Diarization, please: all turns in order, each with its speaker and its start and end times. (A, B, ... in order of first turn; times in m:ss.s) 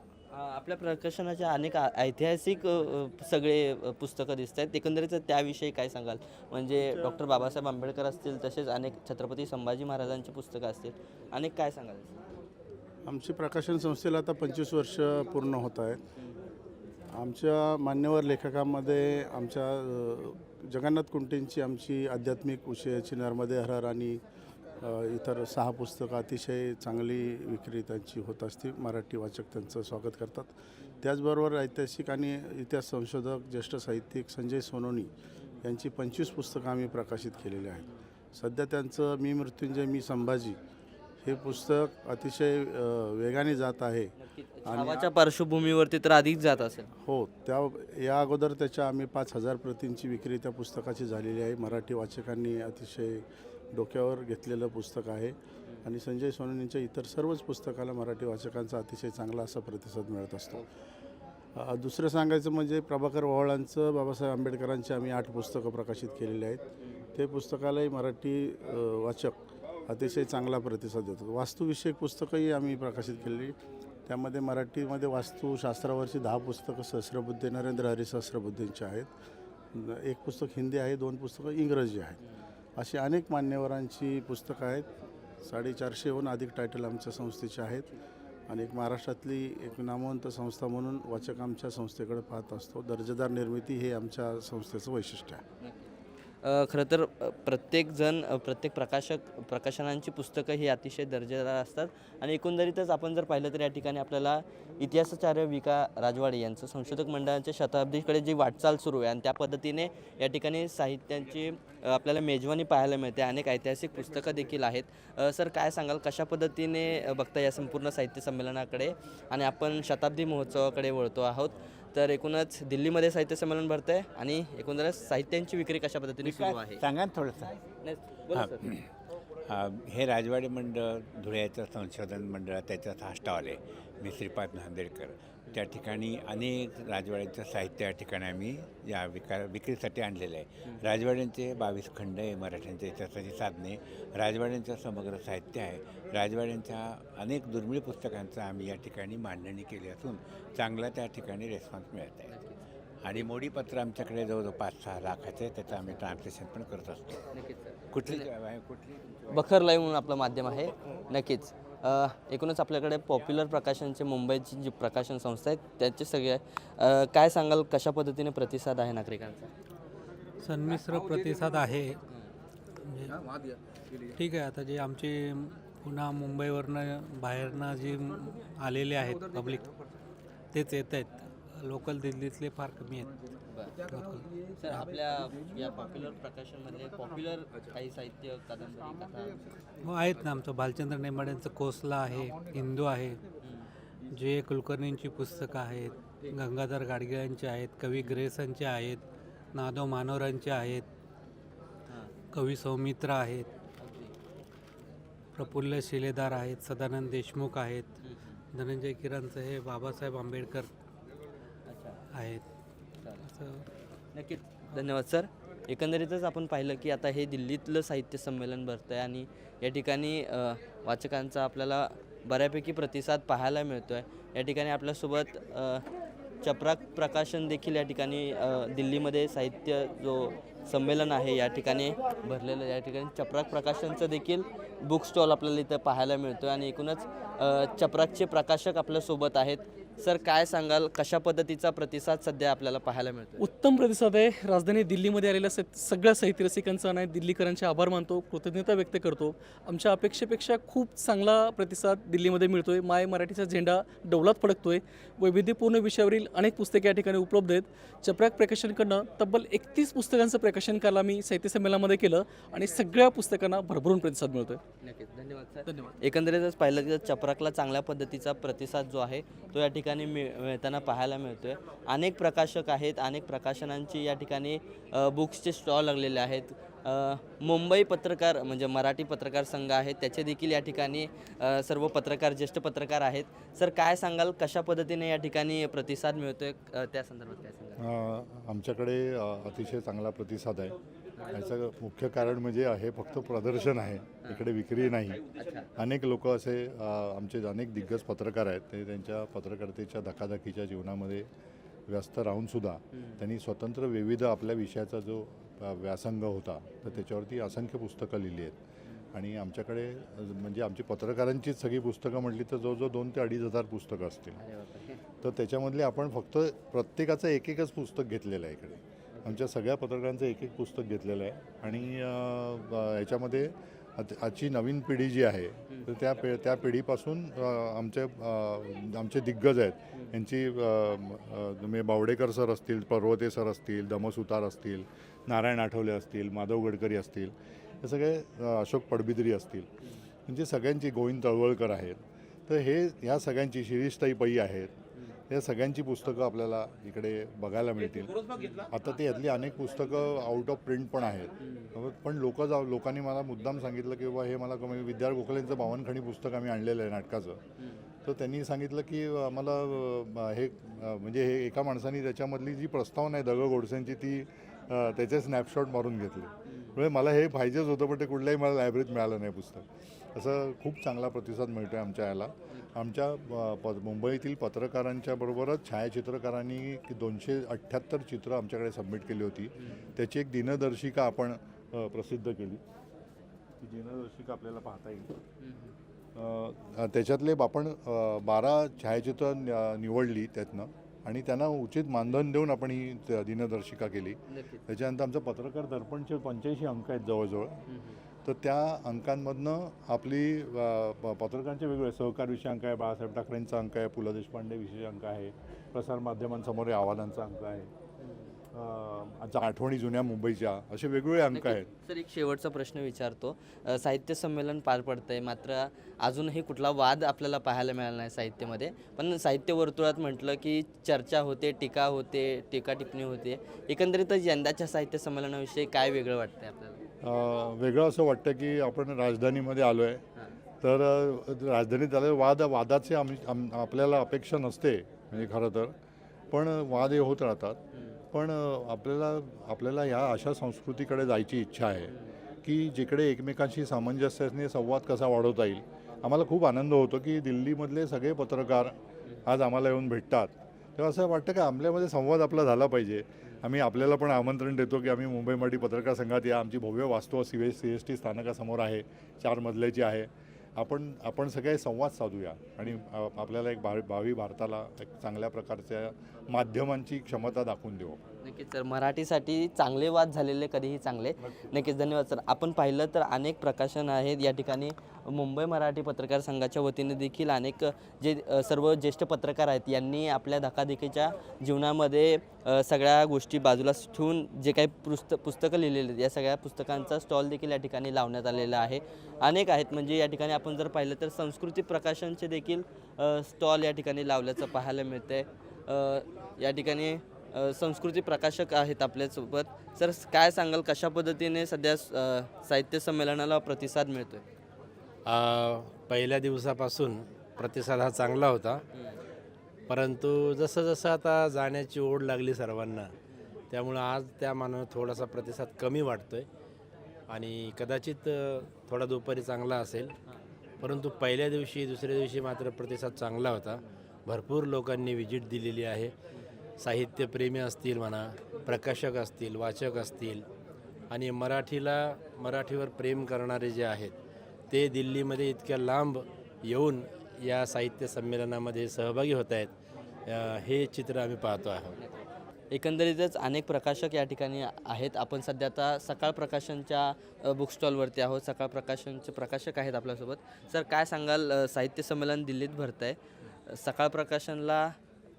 0:00.3-0:12.2 A
0:13.1-0:16.0 B
0:17.1-0:24.2 B
0:24.8-0:35.1 B
0:35.6-0:40.6 B
0:41.2-0:44.1 B
0:44.2-0:46.9 A
0:44.7-0:45.0 B
0:47.0-0:53.2 B
0:53.7-1:00.6 B
1:01.6-1:06.6 B
1:07.2-1:09.4 B
1:09.9-1:13.6 B
1:14.1-1:19.1 B
1:19.7-1:22.2 B
1:22.8-1:24.9 B
1:25.4-1:27.8 B
1:28.5-1:35.4 B
1:35.6-1:35.9 A
1:36.4-2:06.8 A
2:06.2-2:07.6 C
2:07.8-2:08.8 A
2:08.3-2:08.8 C
2:09.5-2:32.3 C
2:32.3-2:32.6 A
2:33.0-2:37.2 C
2:35.7-2:36.0 A
2:37.3-2:38.3 A
2:37.9-2:39.4 C
2:39.3-2:49.5 A
2:50.4-2:52.0 D
2:52.9-2:53.2 D
2:54.1-2:59.7 D
3:00.5-3:03.1 D
3:03.9-3:04.3 D
3:04.6-3:09.4 A
3:09.8-3:13.2 D
3:14.1-3:19.0 D
3:19.5-3:20.8 D
3:22.3-3:23.5 D
3:23.8-3:24.1 A
3:25.4-3:27.9 D
3:28.0-3:28.4 A
3:28.5-3:30.7 D
3:31.7-3:32.0 A
3:32.1-3:32.4 D
3:33.2-3:33.6 D
3:34.2-3:45.8 A
3:46.4-4:03.4 A
4:03.4-4:24.6 E
4:24.8-4:47.8 A
4:47.8-4:50.8 F
4:51.3-4:55.2 F
4:55.3-4:55.7 A
4:55.8-5:01.3 F
5:01.9-5:08.6 F
5:02.9-5:03.2 A
5:09.1-5:14.4 F
5:14.4-5:15.0 A
5:15.2-5:39.7 F
5:19.1-5:19.4 A
5:40.3-5:44.8 F
5:45.3-5:57.4 F
5:48.4-5:48.7 A
5:58.0-6:22.6 F
6:06.5-6:06.8 A
6:19.6-6:19.9 A
6:23.6-6:25.2 F
6:25.4-6:25.7 A
6:26.2-6:37.6 F
6:34.3-6:34.6 A
6:37.7-6:38.0 A
6:38.2-6:47.7 F
6:48.0-6:48.3 A
6:48.5-6:51.7 F
6:51.3-7:06.8 A
7:07.0-7:10.0 F
7:10.6-7:15.7 F
7:16.3-7:17.6 F
7:17.7-7:18.0 A
7:18.1-7:21.9 F
7:22.4-7:28.8 F
7:29.3-7:48.0 F
7:48.2-8:24.2 A
7:51.2-7:51.5 F
8:25.1-8:28.6 G
8:29.7-8:32.9 G
8:33.5-8:36.3 G
8:37.1-8:39.9 G
8:40.6-8:45.9 G
8:46.6-8:50.2 G
8:50.9-8:53.9 G
8:54.5-8:59.5 G
9:00.1-9:01.8 G
9:01.8-9:14.7 A